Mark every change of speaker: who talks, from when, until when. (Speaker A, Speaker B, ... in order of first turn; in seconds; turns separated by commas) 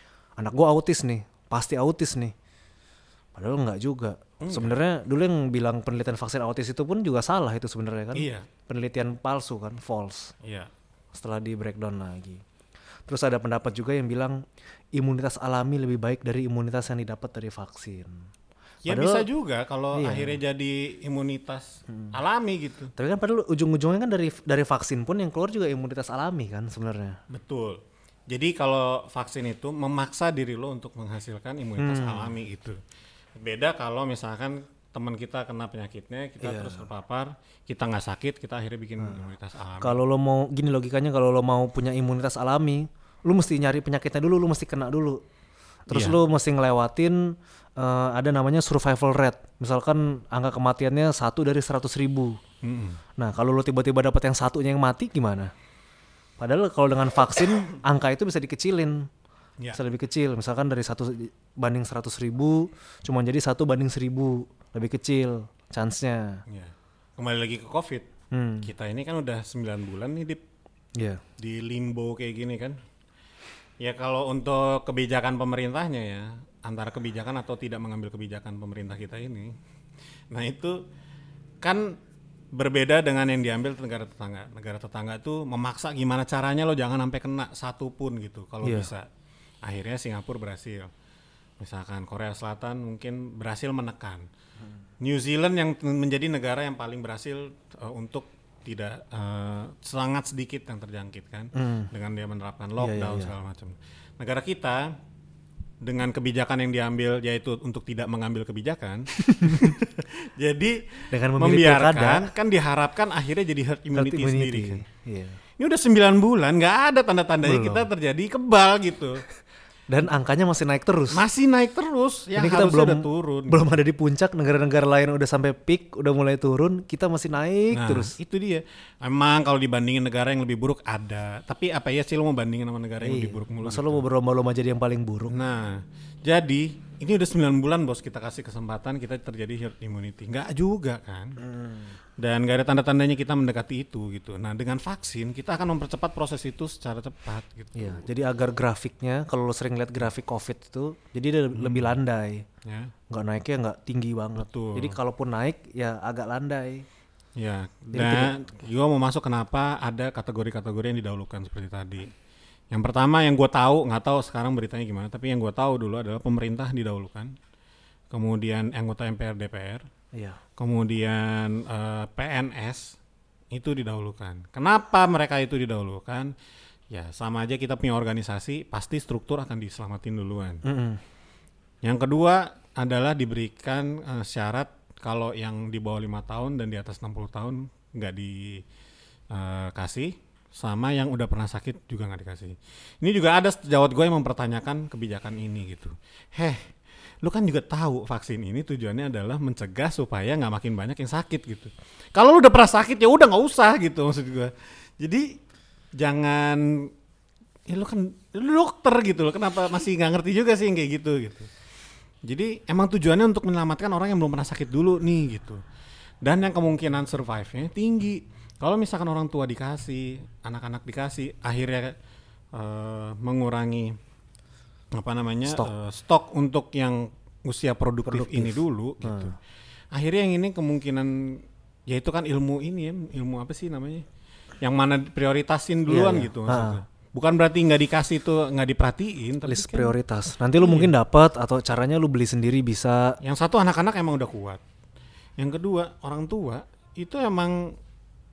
Speaker A: 0.4-2.3, Speaker A: 3.3-10.3, Speaker B: 4.4-4.8, Speaker B: 8.1-8.5, Speaker B: 10.4-10.7, Speaker A: 11.1-12.4, Speaker A: 13.1-18.3, Speaker B: 18.8-22.9, Speaker A: 18.9-19.3, Speaker A: 19.9-20.4, Speaker A: 21.9-22.1, Speaker A: 22.9-27.2, Speaker B: 27.3-32.8, Speaker A: 31.8-32.3, Speaker B: 33.3-40.0, Speaker A: 36.4-36.9, Speaker A: 39.0-39.3, Speaker A: 39.8-45.2, Speaker A: 45.9-52.4, Speaker B: 45.9-46.2, Speaker B: 52.6-53.0, Speaker A: 53.2-55.5, Speaker A: 56.4-59.1, Speaker A: 59.7-66.4, Speaker B: 66.5-68.1, Speaker A: 68.3-68.7, Speaker B: 68.6-70.4, Speaker A: 71.0-71.2, Speaker B: 71.4-72.8, Speaker B: 73.8-79.5, Speaker B: 80.3-80.8, Speaker B: 81.6-82.0, Speaker B: 82.5-89.1, Speaker A: 88.6-88.9, Speaker B: 89.6-90.9, Speaker B: 91.6-94.3, Speaker B: 95.0-104.9, Speaker A: 101.5-101.9, Speaker A: 102.8-103.3, Speaker B: 105.8-114.8, Speaker A: 109.2-109.8, Speaker A: 111.1-112.3, Speaker A: 113.9-115.4, Speaker B: 115.6-119.2, Speaker A: 117.4-117.9, Speaker A: 119.9-121.2, Speaker B: 121.1-123.8, Speaker A: 122.3-128.2, Speaker B: 127.7-134.0, Speaker A: 133.0-135.4, Speaker B: 135.3-141.4, Speaker A: 141.4-141.9, Speaker B: 142.2-148.0, Speaker A: 147.8-152.4, Speaker B: 151.5-151.9, Speaker B: 152.6-152.9, Speaker A: 153.1-156.8, Speaker B: 154.3-155.0, Speaker B: 157.3-162.1, Speaker A: 157.9-158.3, Speaker B: 162.7-167.4, Speaker B: 168.1-169.9, Speaker A: 170.1-170.4, Speaker B: 170.6-173.0, Speaker B: 173.5-176.3, Speaker B: 176.9-180.6, Speaker A: 180.6-181.0, Speaker B: 181.8-188.6, Speaker B: 189.3-205.4, Speaker B: 205.9-206.9, Speaker B: 207.7-211.5, Speaker B: 212.2-215.6, Speaker B: 216.2-221.9, Speaker B: 222.5-223.9, Speaker B: 224.9-229.4, Speaker A: 225.4-225.7, Speaker A: 228.1-229.3, Speaker B: 229.9-234.1, Speaker B: 234.6-239.9, Speaker A: 235.9-236.8, Speaker A: 239.4-243.2, Speaker B: 240.6-240.9, Speaker B: 243.2-244.6, Speaker B: 245.4-247.8